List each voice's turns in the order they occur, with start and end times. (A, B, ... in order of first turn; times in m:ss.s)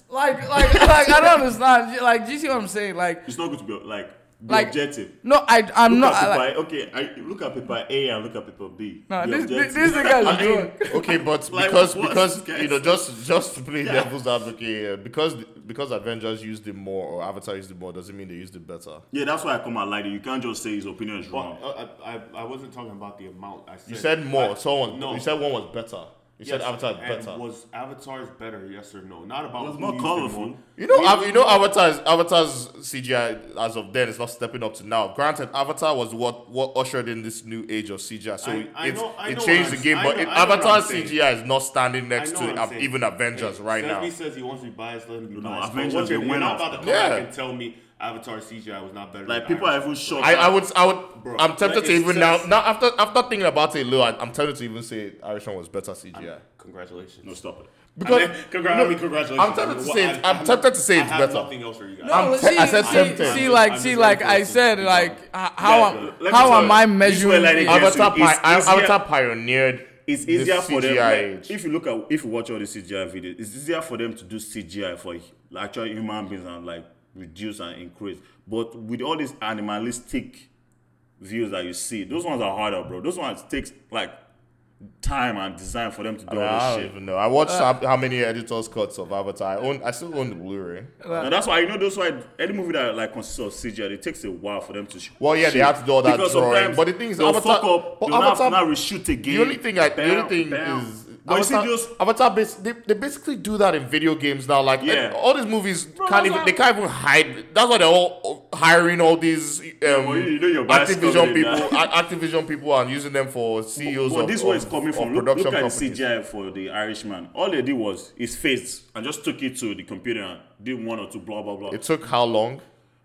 0:00.1-0:03.2 A
0:00.5-0:01.4 B
0:03.2-0:05.1 B
0:04.5-0:06.4 A
0:05.9-0:13.0 B
0:09.1-0:11.0 A
0:10.2-0:19.0 C
0:13.8-0:14.1 B
0:19.1-0:21.6 B
0:21.3-0:25.2 D
0:23.9-0:27.4 C
0:26.4-0:31.6 D
0:29.6-0:30.6 B
0:30.8-0:44.1 C
0:38.4-0:41.2 D
0:42.2-0:50.5 D
0:45.3-0:47.0 B
0:46.8-0:47.3 C
0:49.2-0:50.5 B
0:50.2-0:56.4 C
0:51.2-0:52.5 D
0:56.1-0:57.3 D
0:57.2-0:57.7 B
0:58.0-1:01.5 C
0:58.0-1:05.2 D
1:02.0-1:08.0 A
1:02.1-1:03.5 C
1:05.6-1:09.0 B
1:06.3-1:06.8 D
1:07.6-1:11.5 C
1:10.0-1:20.5 B
1:21.2-1:24.1 B
1:25.0-1:26.9 B
1:26.3-1:31.0 C
1:27.4-1:27.7 A
1:31.0-1:31.3 A
1:31.2-1:41.9 B
1:35.2-1:38.6 C
1:39.2-1:56.0 C
1:44.8-1:45.2 B
1:46.0-1:46.6 B
1:49.8-1:51.8 B
1:53.8-2:01.8 B
2:01.7-2:02.6 C